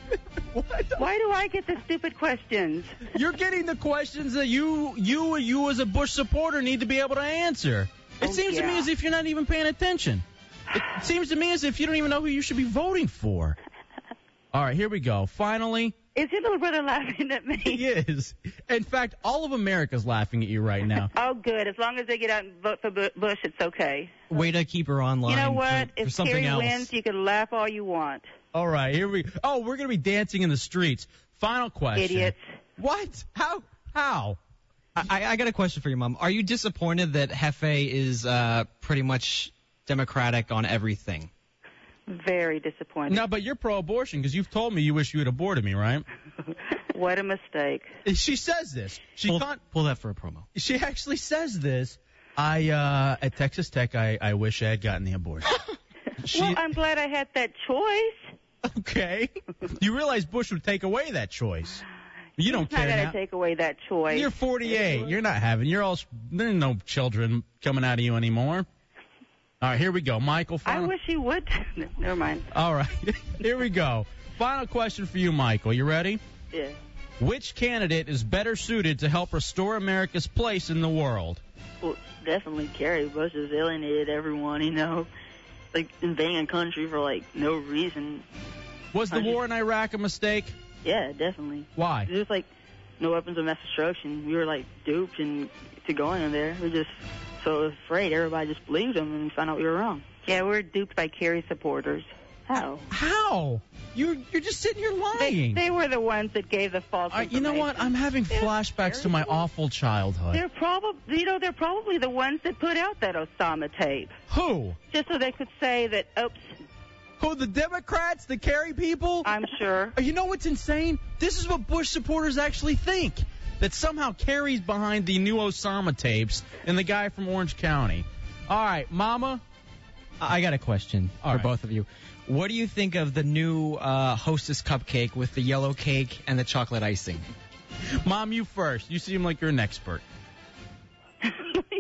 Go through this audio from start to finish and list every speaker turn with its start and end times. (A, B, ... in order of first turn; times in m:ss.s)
0:00.5-0:01.0 A
0:01.0-0:03.1 B
0:03.1-0:13.6 A
0:08.2-0:08.9 B
0:14.5-0:15.9 A
0:16.1-0:17.8 B
0:17.6-0:21.1 A
0:21.1-0:24.3 B
0:24.3-0:26.9 C
0:25.3-0:28.3 B
0:28.5-0:34.4 A
0:31.9-0:32.4 B
0:35.0-0:41.3 C
0:42.1-0:43.2 B
0:43.1-0:46.0 A
0:46.9-0:48.0 B
0:48.0-0:49.6 A
0:49.3-0:50.5 C
0:50.5-0:55.6 A
0:56.2-0:56.7 A
0:56.3-0:58.3 B
0:58.6-1:01.8 A
1:02.4-1:03.2 A
1:02.4-1:04.3 B
1:04.1-1:08.7 A
1:09.6-1:10.9 A
1:10.6-1:12.5 B
1:12.5-1:16.2 A
1:16.5-1:16.8 D
1:17.2-1:21.4 A
1:21.8-1:25.1 D
1:25.7-1:28.2 D
1:28.9-1:30.6 A
1:29.1-1:29.4 D
1:30.8-1:32.5 D
1:31.8-1:32.1 A
1:33.0-1:40.0 D
1:40.2-1:42.1 B
1:42.5-1:42.9 D
1:42.9-1:45.6 A
1:45.2-1:49.4 B
1:47.1-1:50.4 A
1:50.3-1:54.2 B
1:54.3-1:54.8 A
1:54.9-1:56.6 B
1:57.2-1:59.3 A
1:59.2-1:59.9 B
1:59.9-2:09.4 A
2:10.2-2:17.3 C
2:11.2-2:11.5 A
2:18.0-2:20.0 A
2:21.4-2:21.6 B